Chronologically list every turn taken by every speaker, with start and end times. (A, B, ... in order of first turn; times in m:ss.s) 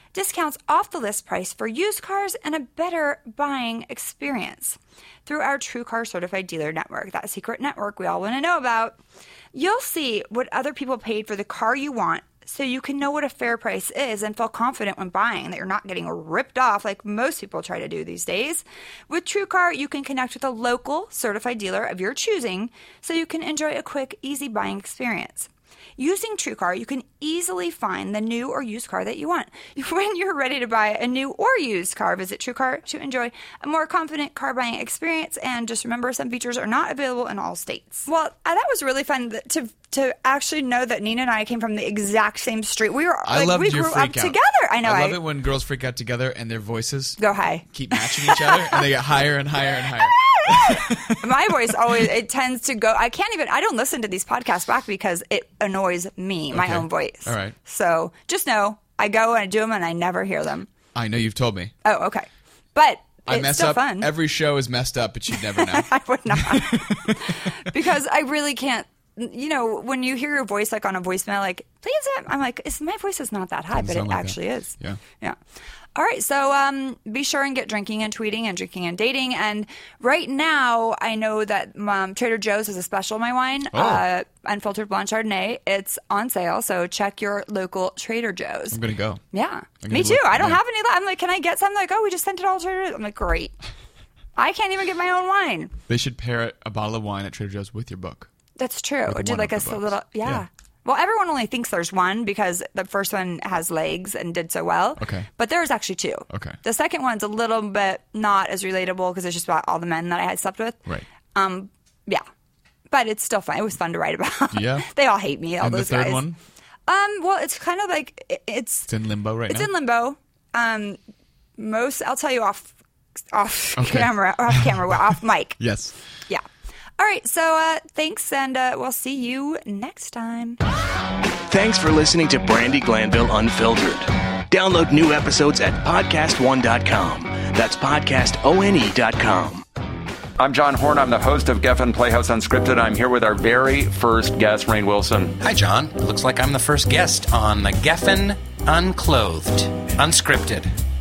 0:00.1-0:09.0 A
0:09.5-0:45.2 A
0:43.3-0:51.3 B
0:47.2-0:48.9 A
0:49.8-1:00.7 A
0:56.5-0:57.6 B
1:01.0-1:01.7 B
1:01.8-1:04.1 A
1:03.3-1:07.6 B
1:05.3-1:15.4 A
1:13.7-1:15.0 B
1:16.0-1:28.8 A
1:23.7-1:24.0 B
1:28.7-1:29.2 B
1:29.3-1:33.6 A
1:29.8-1:30.6 B
1:34.4-1:35.7 A
1:35.9-1:38.3 B
1:38.6-1:50.8 A
1:39.1-1:40.4 B
1:45.0-1:45.3 B
1:46.3-1:46.6 B
1:51.3-1:52.2 A
1:52.9-1:56.2 A
1:54.5-1:54.9 B
1:55.6-1:56.4 B
1:56.9-1:58.9 A
1:58.9-1:59.7 B
1:59.5-2:01.0 A
2:01.6-2:02.7 A
2:03.3-2:05.6 A
2:03.8-2:04.7 B
2:05.6-2:06.0 B
2:07.0-2:10.6 A
2:11.5-2:19.6 C
2:20.4-2:25.4 D
2:25.4-2:30.7 E